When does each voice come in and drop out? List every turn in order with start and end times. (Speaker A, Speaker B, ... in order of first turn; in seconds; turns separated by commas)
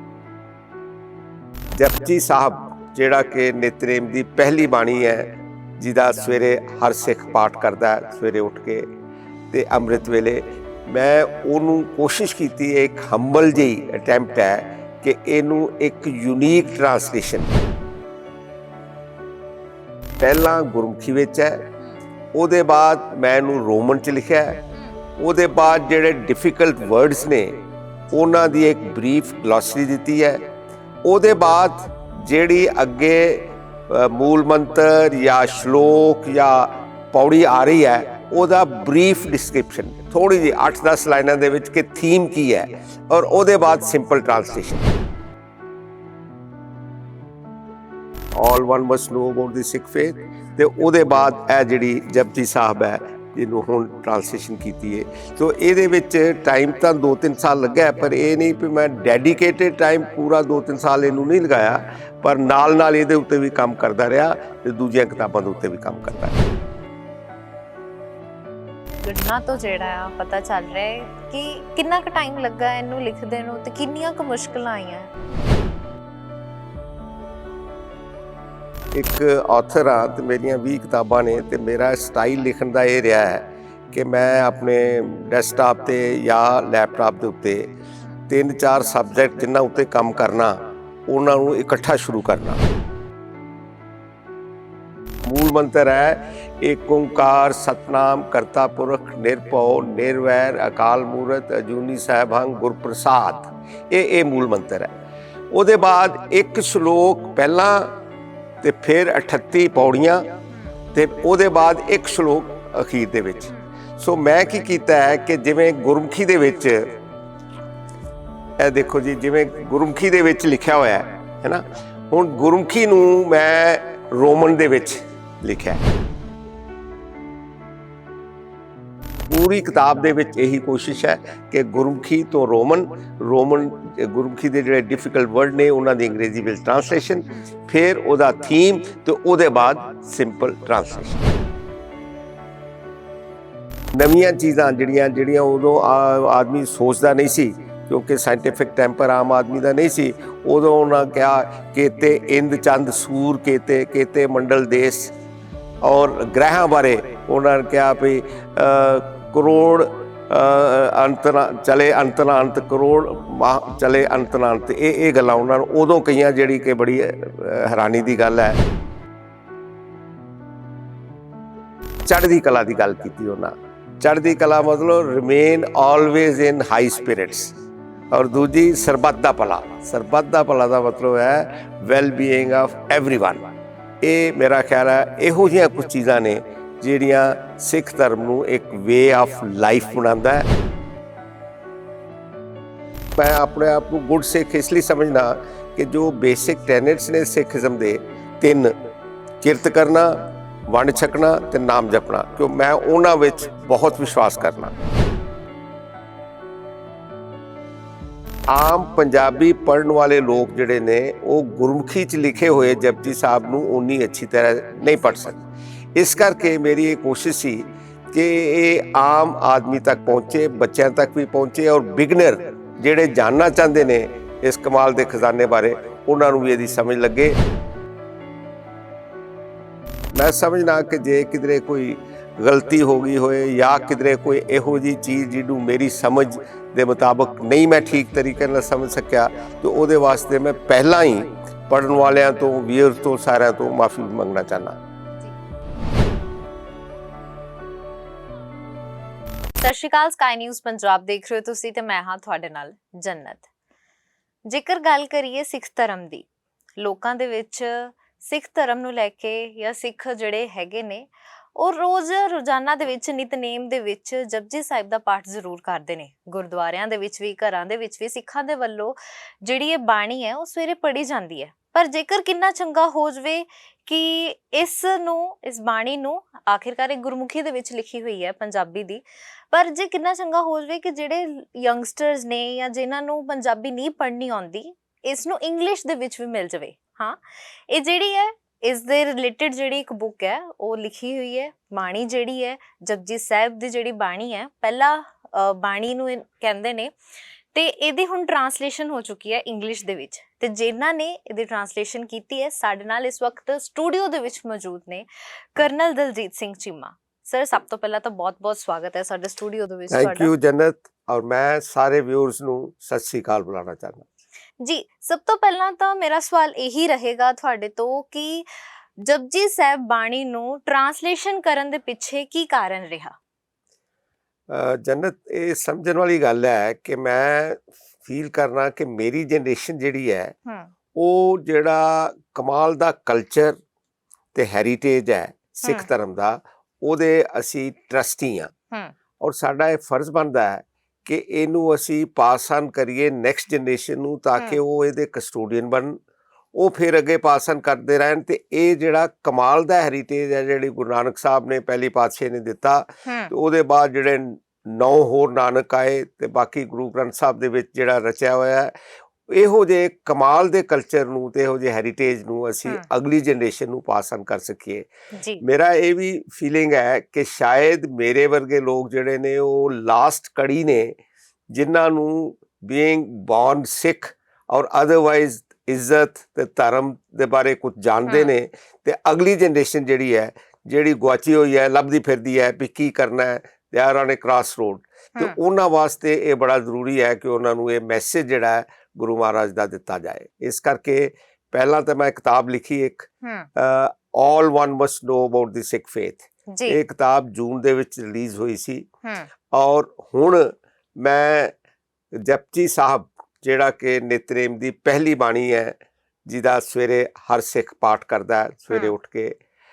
Speaker A: 1.7-8.9, Speaker A: 9.5-17.5, Speaker A: 20.2-21.6, Speaker A: 22.3-24.6, Speaker A: 25.2-30.4, Speaker A: 31.0-44.9, Speaker A: 48.3-66.4, Speaker B: 69.0-75.1, Speaker A: 78.9-87.7, Speaker A: 88.3-92.6, Speaker A: 95.2-104.9, Speaker A: 105.5-107.9, Speaker A: 108.6-110.4, Speaker A: 110.9-116.9, Speaker A: 118.6-125.8, Speaker A: 129.3-141.3, Speaker A: 143.9-155.1, Speaker A: 155.8-168.6, Speaker A: 172.1-177.6, Speaker A: 178.1-183.4, Speaker A: 184.0-190.5, Speaker A: 193.2-198.7, Speaker A: 199.4-204.7, Speaker A: 208.5-215.4, Speaker A: 215.9-227.4, Speaker A: 230.1-244.7, Speaker B: 249.6-253.5, Speaker B: 254.5-256.2, Speaker B: 256.8-287.2, Speaker B: 287.7-296.9, Speaker B: 297.5-310.3, Speaker A: 309.9-314.1, Speaker B: 314.6-318.5, Speaker B: 319.0-323.1, Speaker A: 324.5-330.3, Speaker A: 330.9-333.6, Speaker A: 334.3-338.5, Speaker B: 335.6-335.9, Speaker A: 339.2-346.0, Speaker A: 346.5-358.7, Speaker B: 353.1-353.3, Speaker A: 359.3-364.9, Speaker B: 365.1-365.4, Speaker A: 365.4-371.0, Speaker A: 371.5-398.9, Speaker B: 378.1-378.3, Speaker B: 393.2-393.5, Speaker B: 396.5-396.8, Speaker B: 399.0-399.3, Speaker A: 399.5-401.5, Speaker A: 402.1-405.7, Speaker A: 406.2-409.4